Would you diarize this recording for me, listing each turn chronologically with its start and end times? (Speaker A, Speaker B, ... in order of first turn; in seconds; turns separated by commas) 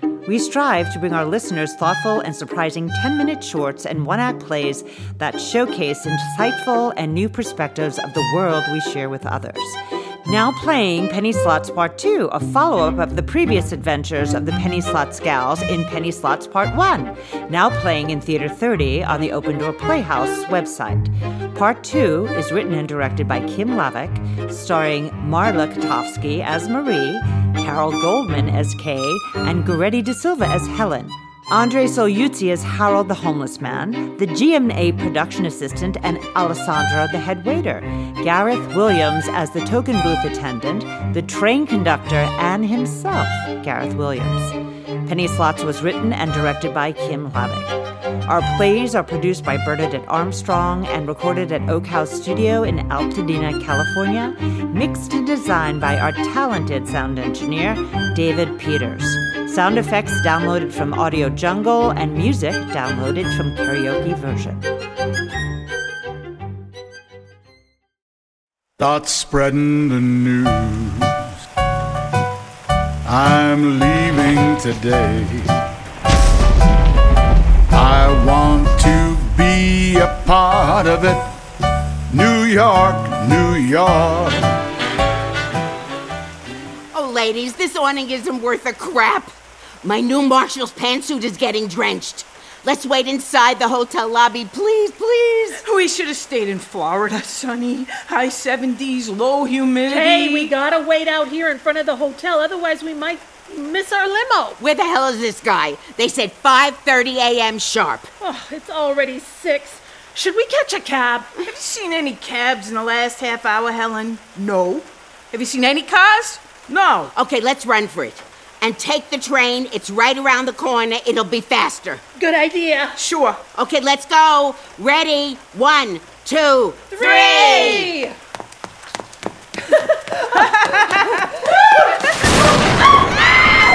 Speaker A: 0.2-64.7, Speaker B: 68.8-71.1, Speaker B: 73.1-75.6, Speaker B: 77.7-81.3, Speaker B: 82.1-84.6, Speaker C: 86.9-95.6, Speaker D: 95.6-100.5, Speaker E: 99.9-104.6, Speaker C: 104.6-108.1, Speaker E: 108.2-111.3, Speaker D: 111.4-117.1, Speaker C: 117.2-122.0, Speaker E: 122.2-123.0, Speaker D: 123.0-123.4, Speaker C: 123.5-128.0, Speaker E: 126.9-128.2, Speaker D: 127.0-127.9, Speaker E: 129.7-131.9, Speaker D: 130.3-131.3